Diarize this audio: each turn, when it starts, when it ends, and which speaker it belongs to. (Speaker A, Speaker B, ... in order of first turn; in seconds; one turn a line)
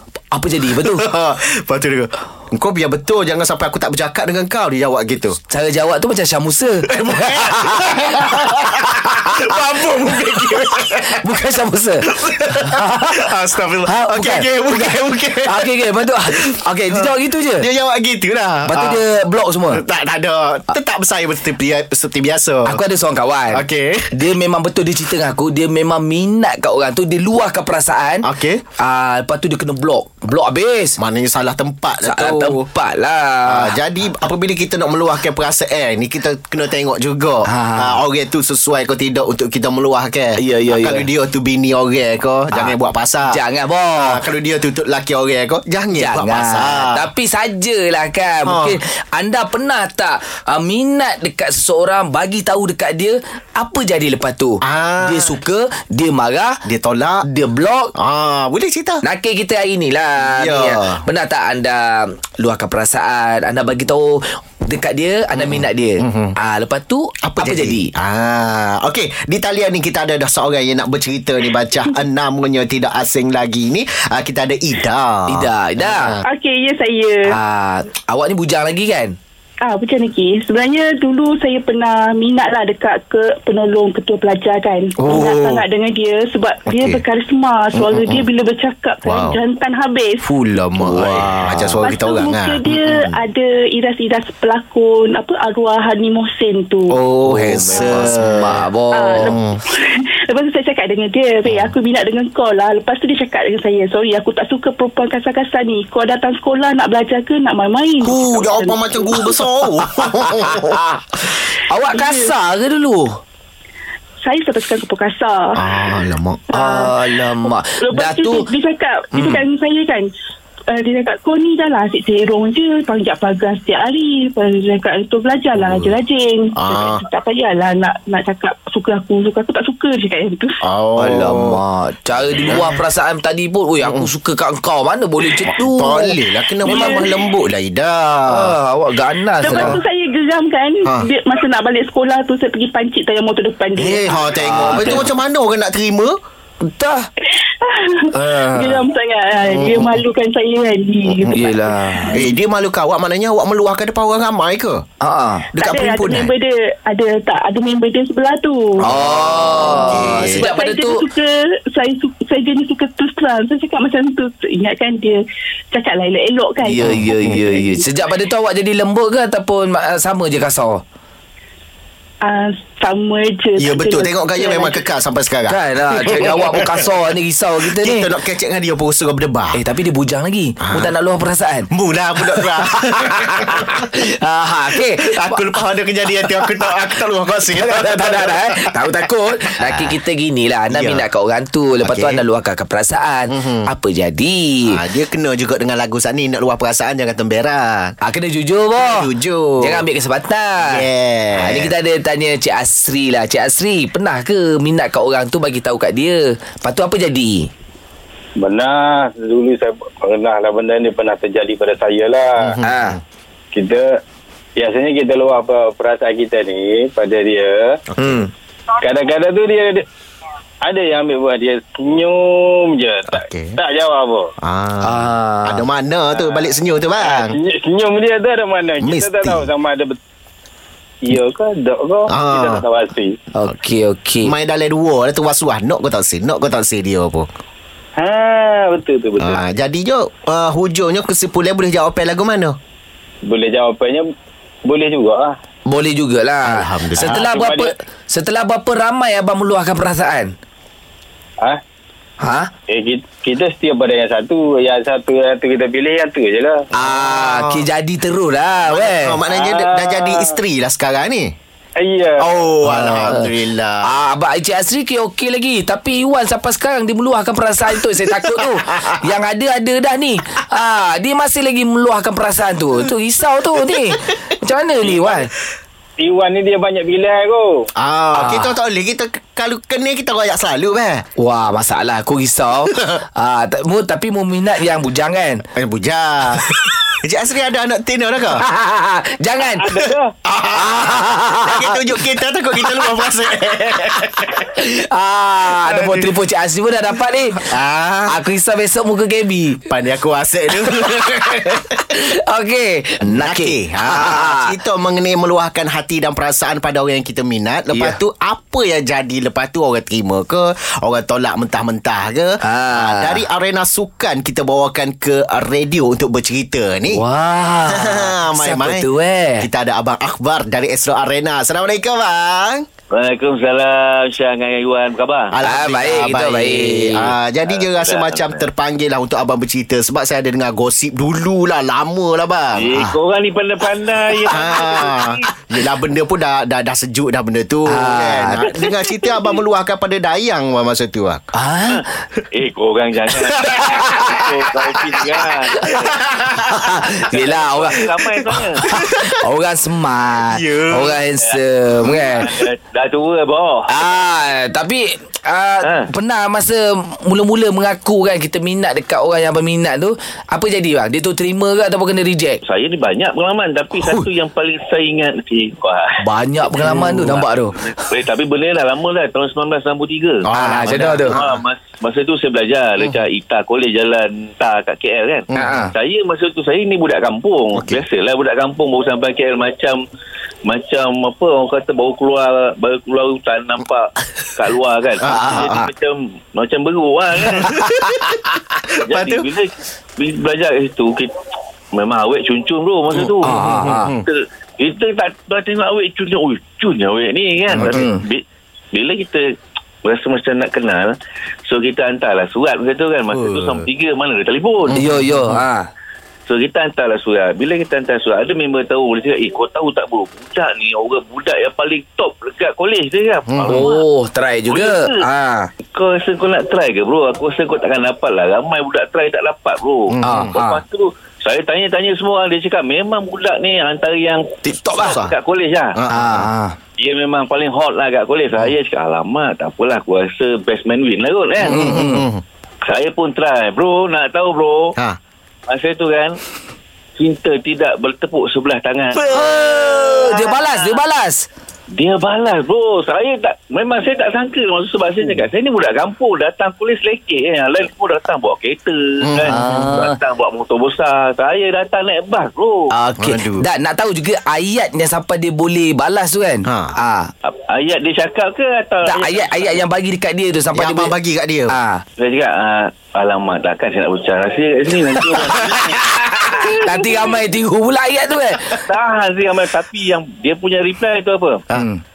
Speaker A: 0.3-1.0
Speaker B: 0.7-5.4
Speaker A: 5.5-9.5
Speaker B: 6.9-11.4
Speaker A: 10.4-13.3
Speaker B: 12.1-15.7
Speaker A: 13.9-17.6
Speaker B: 16.3-19.0
Speaker A: 18.6-19.8
Speaker B: 19.7-22.8
Speaker A: 22.6-31.0
Speaker B: 23.5-24.2
Speaker B: 28.2-28.6
Speaker B: 31.0-32.6
Speaker A: 32.0-33.8
Speaker B: 33.5-43.4
Speaker A: 37.5-38.0
Speaker A: 40.4-41.1
Speaker A: 43.3-44.2
Speaker B: 44.0-47.0
Speaker A: 45.9-56.6
Speaker B: 48.5-48.8
Speaker B: 54.6-55.4
Speaker B: 56.6-57.2
Speaker A: 57.2-57.9
Speaker B: 58.0-59.0
Speaker A: 59.0-67.9
Speaker B: 60.2-61.0
Speaker B: 65.3-66.3
Speaker B: 67.2-76.2
Speaker A: 75.3-76.2
Speaker C: 76.2-77.4
Speaker A: 77.3-79.2
Speaker C: 79.6-90.2
Speaker B: 85.0-85.6
Speaker B: 86.7-87.0
Speaker B: 87.8-88.2
Speaker B: 89.0-89.4
Speaker B: 90.2-93.2
Speaker A: 90.8-91.8
Speaker C: 91.8-97.0
Speaker B: 96.9-98.6
Speaker A: 97.2-99.3
Speaker C: 97.7-98.2
Speaker C: 98.9-109.3
Speaker B: 99.2-99.6
Speaker B: 108.0-110.8
Speaker A: 110.2-111.0
Speaker A: 111.7-113.2
Speaker C: 111.9-112.3
Speaker C: 114.2-115.7
Speaker B: 115.5-116.5
Speaker C: 116.5-120.1
Speaker A: 116.5-118.5
Speaker C: 120.7-130.6
Speaker B: 125.5-125.9
Speaker B: 126.5-127.0
Speaker B: 130.6-131.6
Speaker A: 131.0-137.0
Speaker B: 132.3-132.8
Speaker B: 133.8-134.1
Speaker B: 135.4-138.5
Speaker C: 136.6-137.2
Speaker A: 138.3-139.8
Speaker C: 139.4-145.0
Speaker B: 139.5-139.8
Speaker B: 143.8-146.2
Speaker A: 144.4-145.1
Speaker A: 146.6-147.1
Speaker C: 147.6-152.3
Speaker A: 148.1-148.8
Speaker B: 149.5-150.0
Speaker A: 151.3-152.2
Speaker B: 152.1-154.8
Speaker A: 155.0-155.5
Speaker B: 155.5-156.3
Speaker C: 155.6-158.9
Speaker A: 158.8-161.0
Speaker B: 158.8-160.5
Speaker C: 159.6-167.9
Speaker A: 166.6-170.8
Speaker B: 166.8-167.4
Speaker C: 172.2-174.8
Speaker B: 173.6-176.9
Speaker A: 175.5-178.1
Speaker B: 177.7-179.6
Speaker A: 179.5-181.7
Speaker B: 180.6-180.9
Speaker B: 181.7-183.9
Speaker A: 182.3-185.4
Speaker B: 184.7-189.0
Speaker A: 186.2-186.5
Speaker A: 187.5-194.8
Speaker B: 189.6-189.9
Speaker B: 190.7-191.0
Speaker B: 191.8-192.2
Speaker B: 193.3-193.7
Speaker B: 194.7-197.9
Speaker A: 198.0-199.1
Speaker B: 198.8-199.8
Speaker A: 199.6-207.5
Speaker B: 200.6-201.7
Speaker D: 208.4-212.6
Speaker B: 212.4-213.0
Speaker A: 212.6-213.0
Speaker D: 213.5-213.9
Speaker D: 214.6-217.8
Speaker B: 217.9-218.2
Speaker A: 218.0-218.3
Speaker D: 218.8-219.8
Speaker D: 220.6-224.3
Speaker B: 223.1-223.6
Speaker B: 224.4-227.3
Speaker A: 224.8-225.6
Speaker D: 226.1-230.0
Speaker B: 228.8-229.5
Speaker D: 231.0-233.2
Speaker B: 232.1-232.6
Speaker A: 233.3-234.3
Speaker B: 234.2-237.3
Speaker D: 238.0-239.4
Speaker B: 239.2-242.6
Speaker D: 243.2-244.1
Speaker D: 244.6-245.3
Speaker A: 245.7-250.3
Speaker B: 246.4-247.3
Speaker D: 247.0-247.7
Speaker A: 252.2-252.5
Speaker D: 252.7-256.6
Speaker A: 256.8-259.2
Speaker B: 256.8-257.6
Speaker B: 258.7-261.3
Speaker D: 259.3-260.3
Speaker D: 261.8-262.3
Speaker B: 262.2-263.8
Speaker A: 262.6-263.3
Speaker A: 263.8-275.3
Speaker B: 268.1-269.0
Speaker D: 276.0-277.6
Speaker B: 277.8-281.0
Speaker A: 278.1-278.5
Speaker A: 281.2-285.4
Speaker B: 285.6-288.4
Speaker A: 288.3-289.7
Speaker D: 289.6-290.1
Speaker B: 290.2-294.4
Speaker A: 290.5-291.8
Speaker A: 293.9-297.5
Speaker B: 295.6-296.1
Speaker B: 297.4-298.2
Speaker A: 298.1-299.6
Speaker B: 299.7-301.9
Speaker A: 300.7-301.3
Speaker A: 301.9-304.5
Speaker B: 303.1-317.0
Speaker A: 312.4-313.2
Speaker A: 316.9-319.5
Speaker B: 317.7-318.9
Speaker B: 319.4-322.6
Speaker E: 322.9-325.3
Speaker B: 325.3-332.9
Speaker A: 325.4-327.1
Speaker E: 327.5-328.4
Speaker E: 332.5-335.2
Speaker B: 334.2-341.2
Speaker A: 337.7-338.7
Speaker A: 341.3-341.8
Speaker E: 341.7-346.0
Speaker A: 343.6-344.2
Speaker A: 345.5-345.8
Speaker B: 345.6-346.7
Speaker A: 346.5-352.3
Speaker E: 347.1-348.7
Speaker B: 348.6-349.1
Speaker B: 350.3-351.0
Speaker E: 351.2-353.7
Speaker A: 353.7-362.4
Speaker E: 355.6-355.9
Speaker E: 362.5-379.8
Speaker A: 366.0-367.6
Speaker B: 366.7-367.0
Speaker B: 370.2-371.3
Speaker A: 370.3-371.2
Speaker B: 375.3-375.6
Speaker A: 375.4-375.7
Speaker B: 377.5-377.8
Speaker E: 380.5-387.5
Speaker B: 385.0-385.7
Speaker A: 385.1-385.7
Speaker B: 387.3-388.2
Speaker A: 387.5-388.0
Speaker B: 388.7-389.3
Speaker E: 388.9-391.1
Speaker E: 391.7-399.3
Speaker A: 393.2-393.9
Speaker B: 393.2-394.0
Speaker A: 397.5-398.0
Speaker E: 399.8-400.9
Speaker E: 401.5-404.8
Speaker B: 403.1-403.6
Speaker B: 404.7-405.4
Speaker A: 404.7-405.7
Speaker E: 406.3-413.8
Speaker B: 413.3-413.7
Speaker A: 413.5-415.5
Speaker E: 414.5-415.0
Speaker E: 415.7-425.8
Speaker B: 419.9-420.3
Speaker A: 420.0-420.6
Speaker B: 424.7-425.1
Speaker B: 425.8-426.3
Speaker A: 425.9-426.6
Speaker E: 426.8-431.8
Speaker B: 431.4-432.2
Speaker A: 431.5-432.1
Speaker E: 432.6-434.8
Speaker E: 435.5-436.2
Speaker E: 437.0-440.8
Speaker A: 439.0-441.2
Speaker E: 441.8-452.7
Speaker B: 449.0-449.4
Speaker A: 449.2-450.0
Speaker A: 452.9-457.1
Speaker B: 453.0-453.4
Speaker B: 456.5-456.8
Speaker E: 457.2-459.6
Speaker A: 458.8-460.9
Speaker B: 460.5-461.5
Speaker A: 461.5-461.8
Speaker E: 462.0-467.0
Speaker A: 465.3-468.6
Speaker E: 468.6-471.4
Speaker A: 471.5-471.8